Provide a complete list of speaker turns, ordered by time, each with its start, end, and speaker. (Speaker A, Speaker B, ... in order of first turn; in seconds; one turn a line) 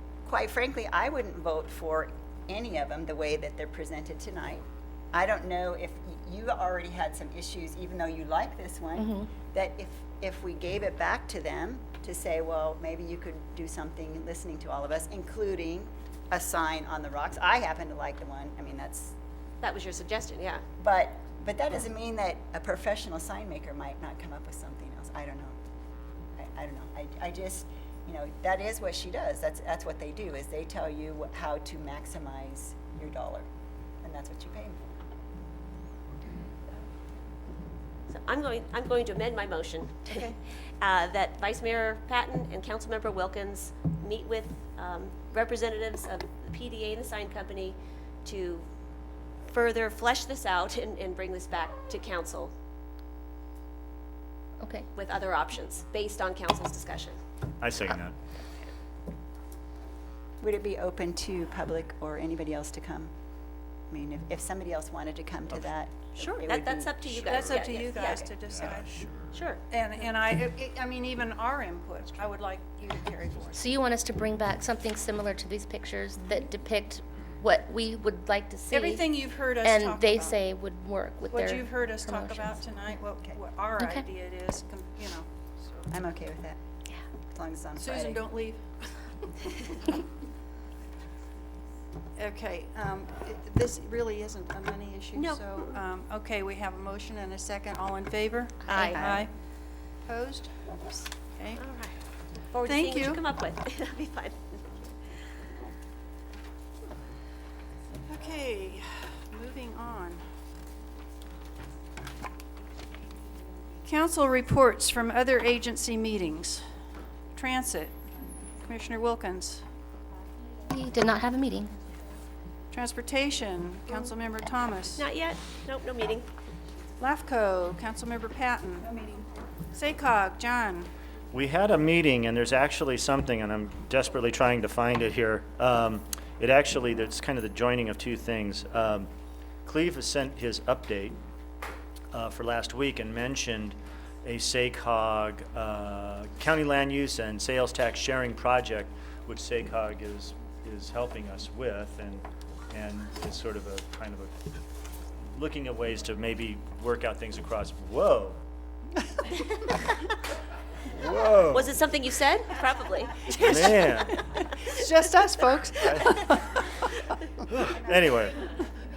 Speaker A: 0.2-19.1
Speaker B: 9.0-9.3
Speaker C: 19.6-20.6
Speaker A: 20.8-25.6
Speaker A: 26.4-33.4
Speaker A: 34.0-34.8
Speaker C: 38.1-48.6
Speaker C: 49.5-52.5
Speaker B: 54.6-54.9
Speaker C: 54.9-57.2
Speaker D: 57.6-58.1
Speaker A: 60.4-63.1
Speaker A: 63.9-67.5
Speaker C: 66.4-68.3
Speaker E: 67.0-68.9
Speaker D: 68.5-69.4
Speaker C: 69.3-69.6
Speaker E: 69.7-73.8
Speaker B: 73.6-79.0
Speaker E: 78.7-80.5
Speaker B: 79.6-82.5
Speaker E: 81.3-85.8
Speaker A: 85.9-86.6
Speaker A: 87.3-88.2
Speaker E: 87.8-89.8
Speaker E: 92.2-99.3
Speaker C: 95.1-95.7
Speaker A: 98.9-99.2
Speaker E: 100.0-101.7
Speaker C: 101.6-105.0
Speaker E: 102.6-103.2
Speaker E: 108.1-110.2
Speaker E: 113.8-116.6
Speaker E: 117.3-118.0
Speaker E: 118.6-119.6
Speaker B: 120.7-121.7
Speaker E: 122.7-125.1
Speaker C: 125.0-126.3
Speaker E: 127.0-128.9
Speaker E: 129.7-130.9
Speaker D: 131.3-139.1
Speaker D: 139.6-141.2
Speaker D: 142.1-154.3
Speaker D: 155.3-158.4
Speaker D: 160.9-161.7
Speaker C: 161.5-163.3
Speaker E: 163.2-167.1
Speaker D: 163.4-164.2
Speaker D: 165.8-166.1
Speaker D: 167.5-168.5